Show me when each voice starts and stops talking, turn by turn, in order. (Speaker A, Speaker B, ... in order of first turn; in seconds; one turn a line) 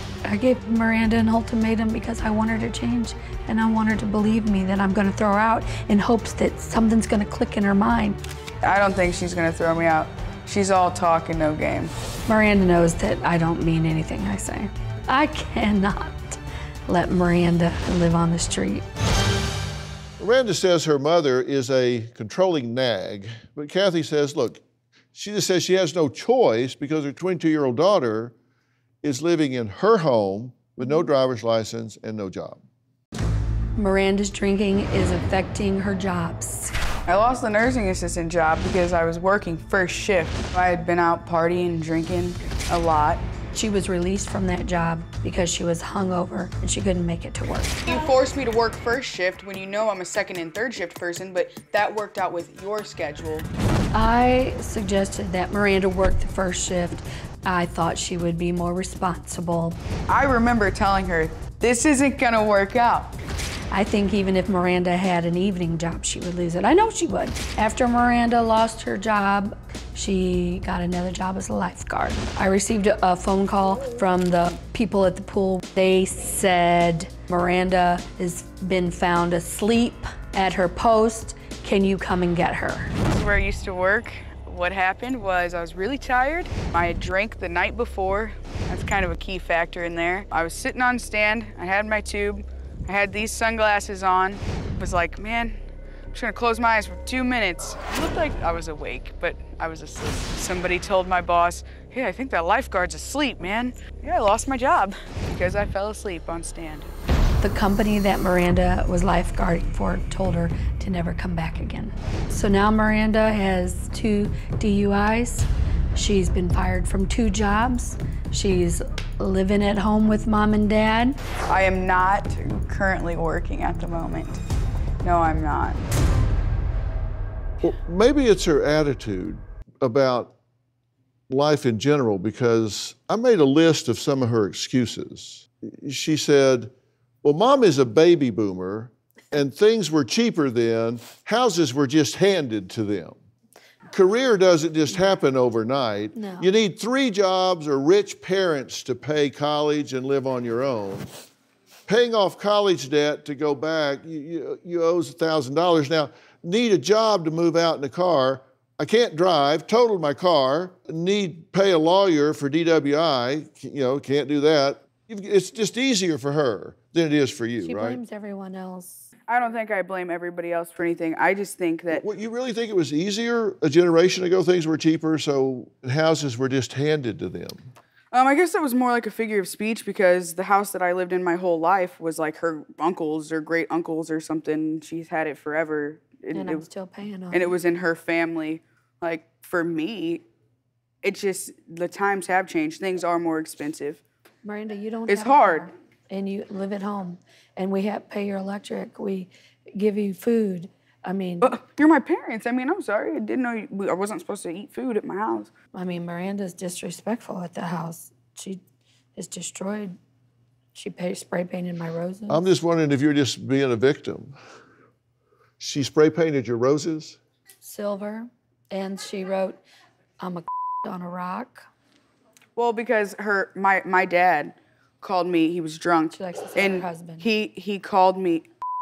Speaker A: 0.2-8.2
Speaker B: 8.6-11.9
Speaker A: 12.3-18.9
Speaker C: 20.2-24.6
Speaker C: 25.1-28.4
Speaker C: 29.0-32.6
Speaker A: 33.8-36.7
Speaker B: 37.1-43.2
Speaker A: 43.5-47.9
Speaker B: 47.9-53.5
Speaker A: 53.9-59.8
Speaker B: 60.1-63.1
Speaker A: 63.7-82.9
Speaker B: 83.1-95.6
Speaker B: 96.1-106.9
Speaker A: 107.4-121.2
Speaker B: 121.5-124.4
Speaker B: 125.0-125.8
Speaker C: 127.6-130.3
Speaker C: 131.3-136.7
Speaker C: 137.2-143.2
Speaker C: 143.9-151.1
Speaker A: 146.2-146.5
Speaker C: 151.9-168.0
Speaker A: 167.6-169.1
Speaker B: 169.3-172.1
Speaker C: 171.9-177.7
Speaker B: 178.1-186.7
Speaker A: 186.3-187.5
Speaker B: 187.3-190.2
Speaker B: 191.0-194.0
Speaker A: 194.4-201.6
Speaker B: 195.1-195.7
Speaker B: 201.4-205.5
Speaker A: 205.8-208.6
Speaker A: 209.2-210.0
Speaker A: 210.7-212.5
Speaker C: 212.3-214.4
Speaker C: 215.6-217.2
Speaker A: 217.6-219.6
Speaker A: 220.2-221.7
Speaker B: 222.6-228.5
Speaker A: 226.1-227.3